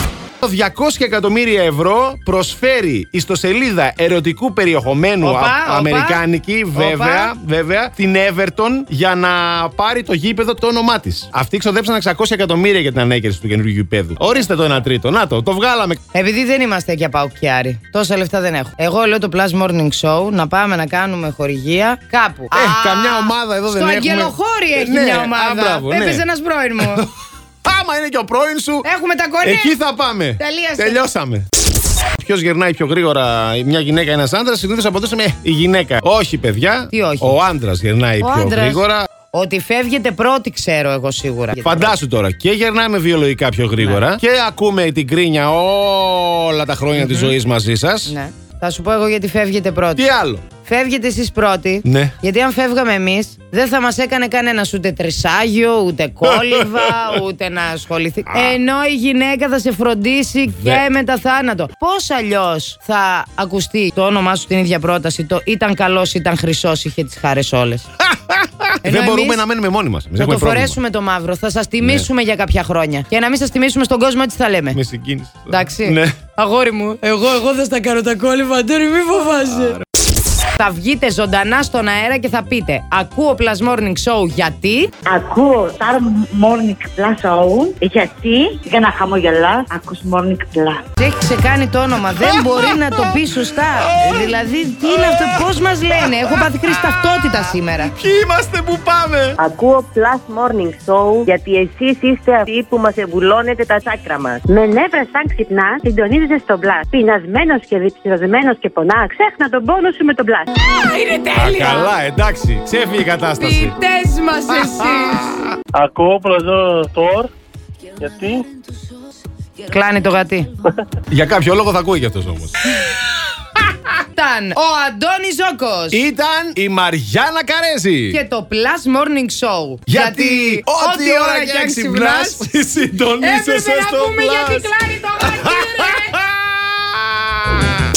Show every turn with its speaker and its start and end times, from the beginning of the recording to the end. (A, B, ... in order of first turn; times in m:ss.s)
0:00.4-0:16.0 A
0:05.2-0:06.2 B
0:06.8-0:07.3 B
0:16.1-0:27.0 B
0:22.5-0:26.2 A
0:27.6-0:28.9 A
0:28.8-0:29.8 B
0:29.4-0:31.5 A
0:30.4-0:31.0 B
0:32.2-0:39.1 A
0:36.9-0:37.4 B
0:38.2-0:42.0 B
0:41.6-0:48.1 A
0:47.0-0:47.3 B
0:48.1-0:50.0 B
0:50.0-0:50.4 A
0:50.6-1:07.8 B
0:51.8-0:52.2 A
0:56.5-0:57.2 A
0:58.3-0:58.6 A
1:00.5-1:00.8 A
1:08.0-1:10.8 A
1:08.8-1:09.4 B
1:10.2-1:14.8 B
1:11.8-1:12.1 A
1:14.7-1:16.2 A
1:15.5-1:19.8 B
1:20.6-1:24.9 B
1:25.1-1:30.8 C
1:31.0-1:37.9 B
1:34.0-1:34.3 A
1:35.0-1:35.3 A
1:38.0-1:39.4 A
1:39.4-1:44.4 D
1:44.5-1:50.5 E
1:50.7-1:51.9 B
1:51.3-1:53.8 A
1:53.4-1:55.4 B
1:54.5-1:55.4 A
1:55.7-1:57.3 F
1:58.0-1:58.4 F
1:59.6-2:00.5 B
2:01.1-2:02.6 A
2:04.2-2:06.0 B
2:05.9-2:08.2 A
2:08.1-2:12.4 B
2:09.9-2:17.7 A
2:13.2-2:16.2 B